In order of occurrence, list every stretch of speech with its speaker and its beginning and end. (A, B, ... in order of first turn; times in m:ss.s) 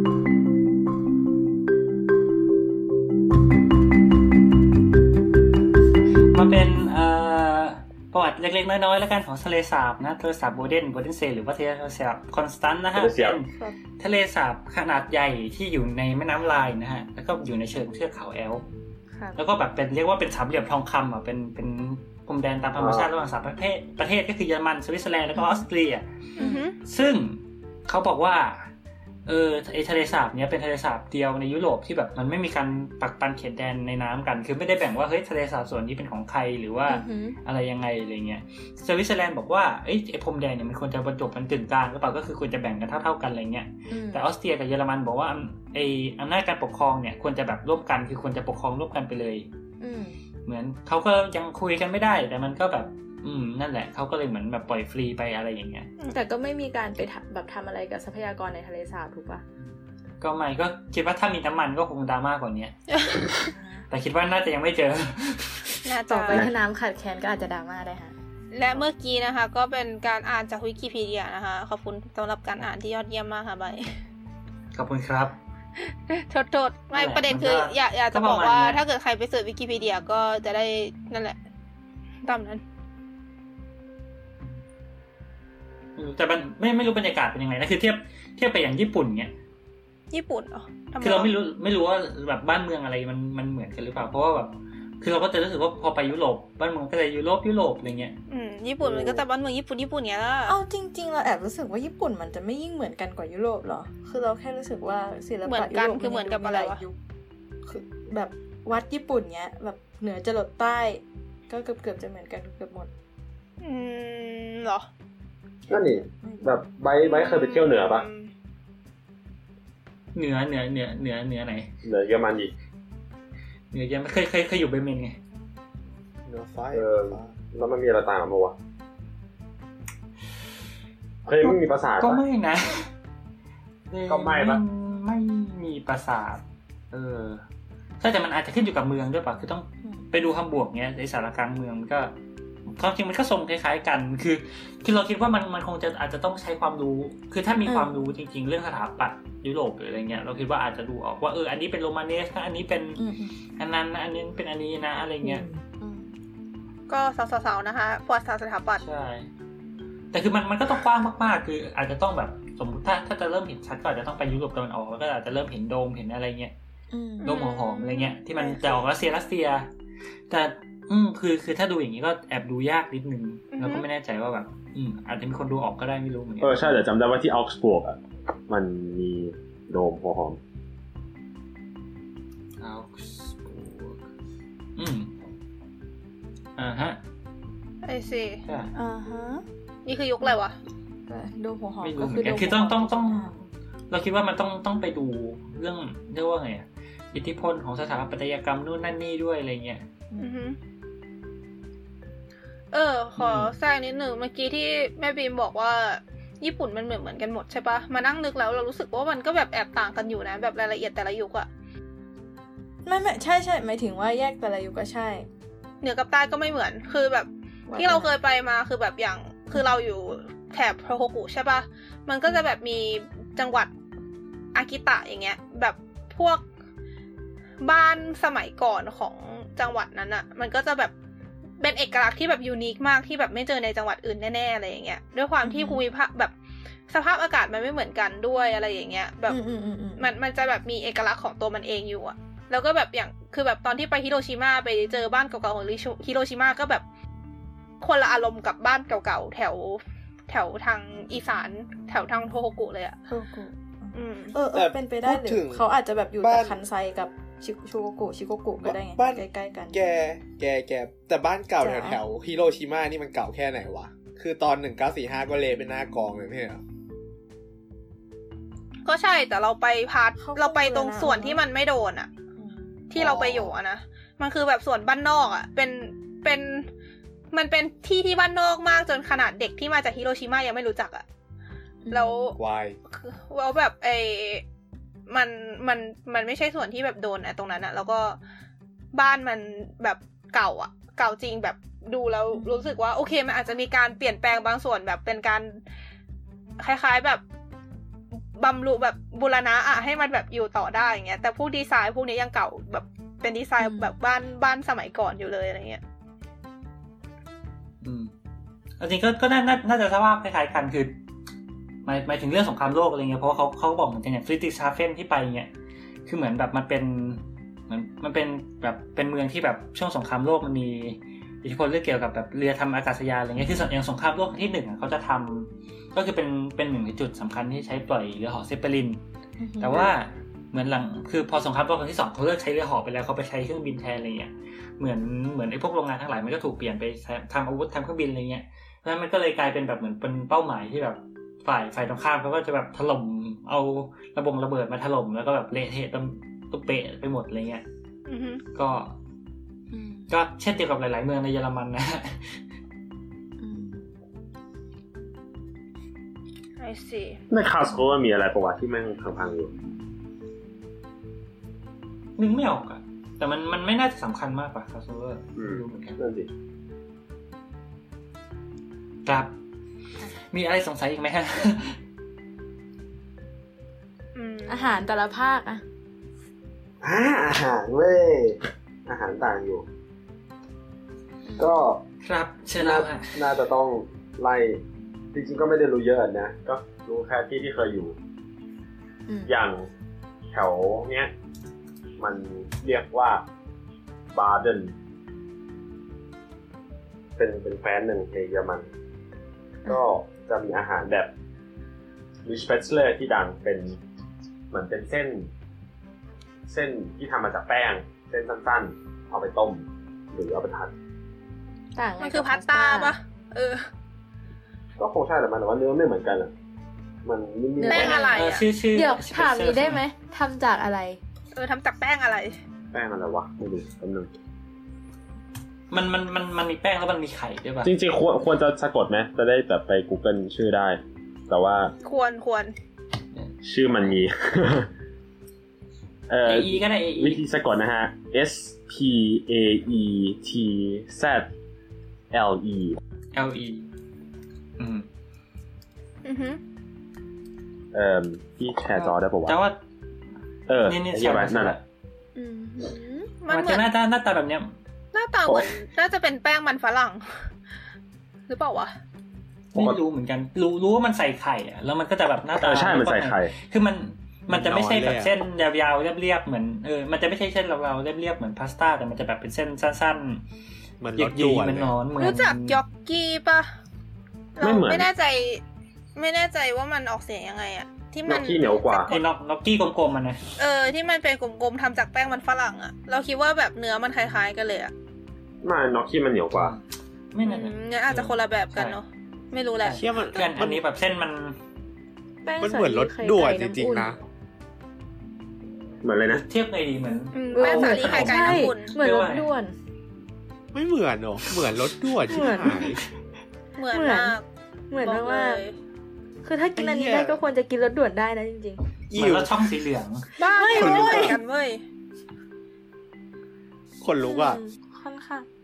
0:06.3-0:18.6 A
0:12.9-0:13.4 B
0:19.1-0:19.4 C
0:19.4-0:26.1 A
0:22.8-0:23.1 B
0:25.3-0:25.7 C
0:26.4-0:26.8 D
0:26.4-0:26.7 C
0:26.8-0:28.7 A
0:29.2-0:49.5 A
0:36.9-0:37.4 C
0:43.9-0:44.2 C
0:49.8-0:50.2 C
0:50.4-0:55.9 A
0:56.1-0:59.4 C
0:59.6-1:02.7 A
1:02.9-1:03.4 D
1:03.5-1:03.8 C
1:03.9-1:05.7 A
1:05.8-1:06.5 D
1:06.1-1:08.1 C
1:08.5-1:13.9 D
1:14.7-1:15.4 A
1:16.1-1:21.4 D
1:16.9-1:18.8 A
1:22.2-1:22.6 D
1:26.0-1:29.3 A
1:30.1-1:31.3 D
1:31.0-1:38.2 A
1:38.3-1:40.6 D
1:38.8-1:39.2 B
1:40.4-1:46.9 C
1:45.4-1:46.8 D
1:47.6-1:52.9 C
1:53.6-1:54.9 D
1:55.7-1:58.1 B
1:55.7-1:56.6 C
1:57.0-1:58.3 D
2:00.1-2:01.7 A
2:01.8-2:02.5 B
2:03.7-2:05.2 A
2:06.2-2:07.3 E
2:06.7-2:08.5 B
2:11.2-2:12.2 B
2:11.4-2:12.9 A
2:13.9-2:17.4 A
2:14.1-2:14.6 B
2:18.0-2:22.1 A
2:22.7-2:33.0 A
2:27.6-2:28.1 C
2:33.0-2:33.3 C
2:33.6-2:35.4 A
2:35.2-2:36.1 C
2:36.9-2:38.8 D
2:38.8-2:39.3 A
2:40.1-2:46.5 A
2:46.9-2:48.0 C
2:47.2-2:48.8 D
2:47.2-2:49.7 A
2:50.3-2:56.7 A
2:53.5-2:53.8 D
2:56.4-3:00.4 B
3:02.6-3:04.0 A
3:04.8-3:05.1 A
3:06.6-3:07.0 A
3:07.8-3:08.4 D
3:08.5-3:08.7 A
3:08.7-3:09.4 C
3:09.8-3:10.5 D
3:11.1-3:13.4 C
3:11.8-3:13.3 A
3:13.9-3:19.8 A
3:20.1-3:20.4 C
3:20.2-3:20.6 D
3:22.7-3:31.5 D
3:23.2-3:23.5 A
3:32.8-3:35.2 C
3:35.8-3:43.7 D
3:37.7-3:38.2 C
3:44.5-3:46.4 D
3:47.6-3:50.9 D
3:51.6-3:56.3 D
3:55.4-3:55.8 C
3:56.9-3:59.4 D
3:59.3-4:00.1 C
4:00.0-4:06.8 D
4:07.8-4:13.0 D
4:13.1-4:19.8 C
4:13.9-4:14.3 D
4:14.5-4:15.6 E
4:16.2-4:16.6 E
4:18.6-4:26.6 E
4:21.6-4:22.0 C
4:28.8-4:32.1 D
4:30.2-4:31.4 C
4:32.4-4:32.9 C
4:32.9-4:36.7 D
4:33.0-4:33.5 B
4:37.3-4:41.0 D
4:41.8-4:42.3 C
4:41.9-4:42.4 D
4:42.4-4:42.8 E
4:42.9-4:44.4 D
4:45.1-4:48.2 D
4:48.9-4:55.6 D
4:52.3-4:52.7 C
4:56.6-4:57.2 D
4:58.4-5:05.8 D
5:03.6-5:03.9 C
5:07.8-5:08.1 A
5:08.8-5:11.0 A
5:11.8-5:15.5 A
5:16.0-5:29.0 A
5:29.4-5:29.9 C
5:29.6-5:47.6 A
5:48.0-5:48.4 D
5:48.5-5:49.0 A
5:49.7-5:50.1 C
5:50.1-5:52.3 A
5:53.4-5:53.9 C
5:56.6-5:57.2 D
5:57.3-5:59.5 B
6:02.2-6:06.0 A
6:05.4-6:06.3 B
6:09.0-6:09.3 A
6:10.3-6:11.8 A
6:14.1-6:14.7 D
6:14.5-6:15.6 C
6:16.8-6:19.7 B
6:21.2-6:21.5 C
6:21.4-6:21.8 B
6:22.0-6:23.3 A
6:22.6-6:24.6 B
6:25.1-6:28.0 B
6:29.1-6:29.3 C
6:29.2-6:29.7 B
6:30.3-6:31.1 B
6:32.0-6:33.2 B
6:34.1-6:34.7 B
6:37.2-6:38.7 B
6:39.6-6:41.1 B
6:42.2-6:43.8 B
6:44.5-6:45.3 B
6:46.5-6:50.7 B
6:51.7-6:53.0 C
6:52.0-6:53.7 D
6:54.8-6:56.3 B
6:57.0-6:58.2 B
6:57.6-6:58.2 C
6:57.6-6:58.5 D
6:58.1-6:59.8 A
6:58.7-7:01.0 C
7:01.3-7:02.4 D
7:02.7-7:04.1 B
7:05.7-7:07.7 A
7:07.6-7:11.7 B
7:11.8-7:12.5 D
7:13.4-7:14.7 B
7:16.1-7:21.3 B
7:16.2-7:17.2 A
7:22.1-7:22.8 B
7:23.1-7:23.7 A
7:24.6-7:24.9 A
7:26.0-7:26.4 D
7:27.7-7:29.4 B
7:28.7-7:29.6 A
7:30.5-7:31.6 B
7:30.6-7:31.6 A
7:32.2-7:33.1 C
7:33.2-7:33.7 D
7:33.3-7:34.6 A
7:34.9-7:37.0 D
7:35.3-7:35.5 B
7:38.3-7:38.7 D
7:39.5-7:50.2 A
7:39.5-7:39.8 B
7:42.4-7:43.3 B
7:44.3-7:45.1 E
7:50.8-7:51.7 E
7:51.0-7:52.6 A
7:52.0-7:53.5 D
7:54.4-7:55.4 D
7:54.4-7:54.9 B
7:56.0-7:59.0 D
7:58.0-7:59.0 B
7:58.9-8:00.2 A
8:00.4-8:04.7 D
8:05.4-8:06.6 B
8:06.3-8:06.6 A
8:07.1-8:08.8 A
8:07.2-8:09.9 D
8:09.6-8:11.4 A
8:09.8-8:10.6 E
8:12.2-8:13.9 C
8:12.4-8:14.0 E
8:15.8-8:16.2 B
8:16.2-8:19.3 A
8:17.1-8:18.8 D
8:17.3-8:19.5 C
8:20.5-8:22.8 E
8:22.1-8:22.6 C
8:23.6-8:24.2 D
8:23.7-8:24.2 C
8:24.7-8:25.4 C
8:24.8-8:25.6 D
8:26.2-8:28.6 C
8:26.6-8:27.2 E
8:28.9-8:29.3 E
8:28.9-8:30.1 A
8:30.2-8:31.6 D
8:30.3-8:31.1 C
8:30.5-8:31.2 E
8:33.8-8:34.4 E
8:34.0-8:35.2 C